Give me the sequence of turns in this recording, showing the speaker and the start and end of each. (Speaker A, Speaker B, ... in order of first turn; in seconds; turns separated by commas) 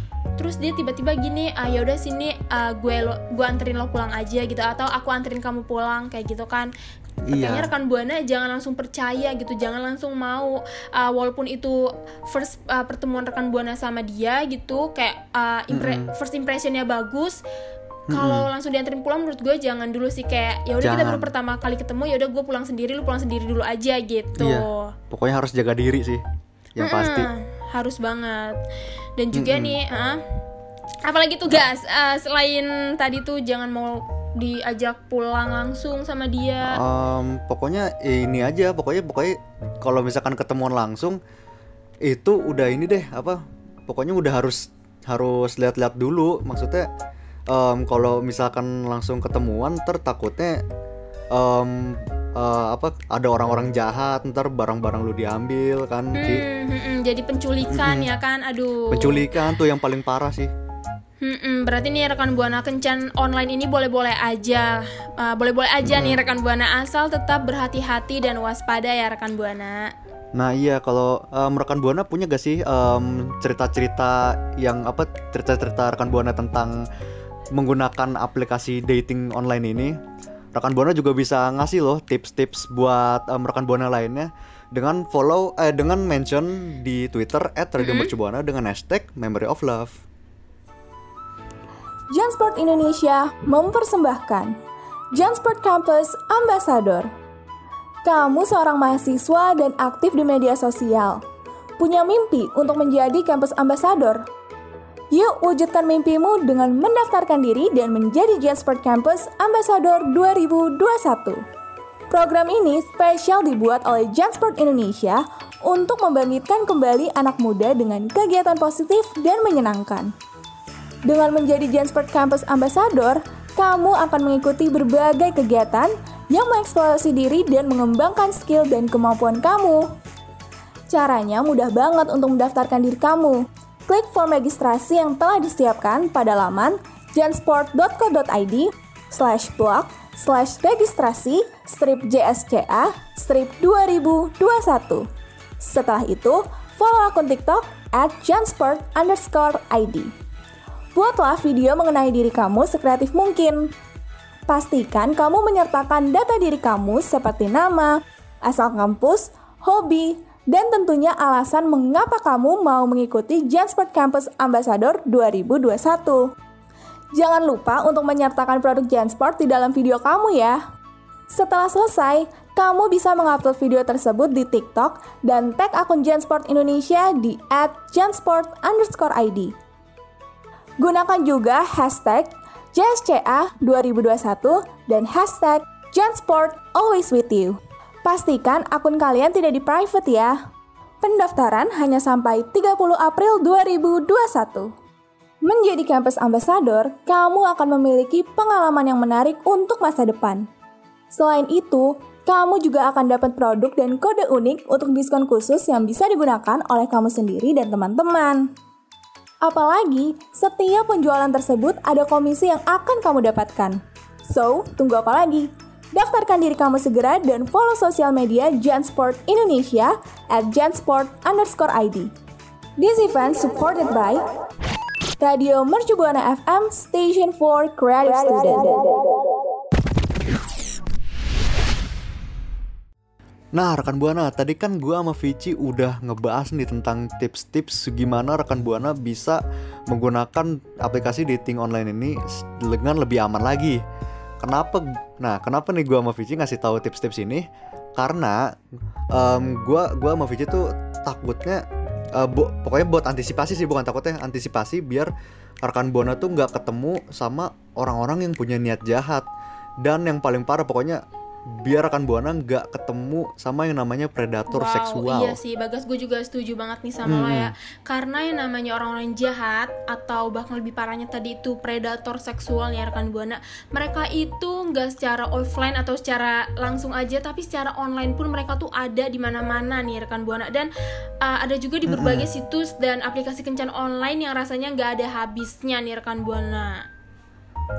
Speaker A: 0.4-6.7, Speaker B: 7.3-7.7, Speaker A: 7.3-17.4, Speaker B: 15.7-16.1, Speaker B: 18.1-18.5, Speaker A: 18.1-24.9, Speaker B: 20.8-21.3, Speaker B: 24.4-26.2, Speaker B: 26.8-27.3, Speaker A: 26.8-28.6, Speaker A: 29.2-30.2, Speaker B: 29.3-29.8, Speaker A: 31.1-36.8, Speaker B: 36.7-41.2, Speaker B: 42.0-46.9, Speaker B: 47.5-50.6, Speaker B: 51.3-56.4, Speaker A: 56.1-59.3, Speaker B: 57.7-58.1, Speaker B: 58.9-60.5, Speaker A: 61.2-69.9, Speaker B: 65.8-66.2, Speaker B: 70.3-76.8, Speaker B: 77.5-80.0, Speaker B: 80.5-90.0, Speaker A: 87.8-88.1, Speaker C: 92.1-94.5, Speaker C: 95.1-97.1, Speaker C: 98.0-101.2, Speaker C: 101.8-104.2, Speaker C: 105.1-111.4, Speaker C: 112.1-120.1, Speaker C: 121.1-129.8, Speaker C: 130.9-145.0, Speaker C: 145.6-150.1, Speaker C: 150.9-153.7, Speaker C: 154.5-166.2, Speaker C: 167.1-170.6, Speaker C: 171.3-179.5, Speaker C: 180.8-190.3, Speaker C: 191.0-194.7, Speaker C: 195.4-200.4, Speaker C: 201.1-208.4, Speaker C: 209.4-222.1, Speaker C: 222.8-224.2, Speaker C: 225.2-229.1, Speaker B: 233.5-243.8, Speaker B: 244.4-247.4, Speaker B: 248.0-248.4, Speaker B: 249.1-251.6, Speaker B: 252.2-255.1, Speaker B: 255.6-259.2, Speaker B: 259.8-261.0, Speaker B: 261.6-265.4, Speaker A: 264.5-280.7, Speaker B: 267.1-267.5, Speaker A: 281.2-286.8, Speaker B: 281.9-282.3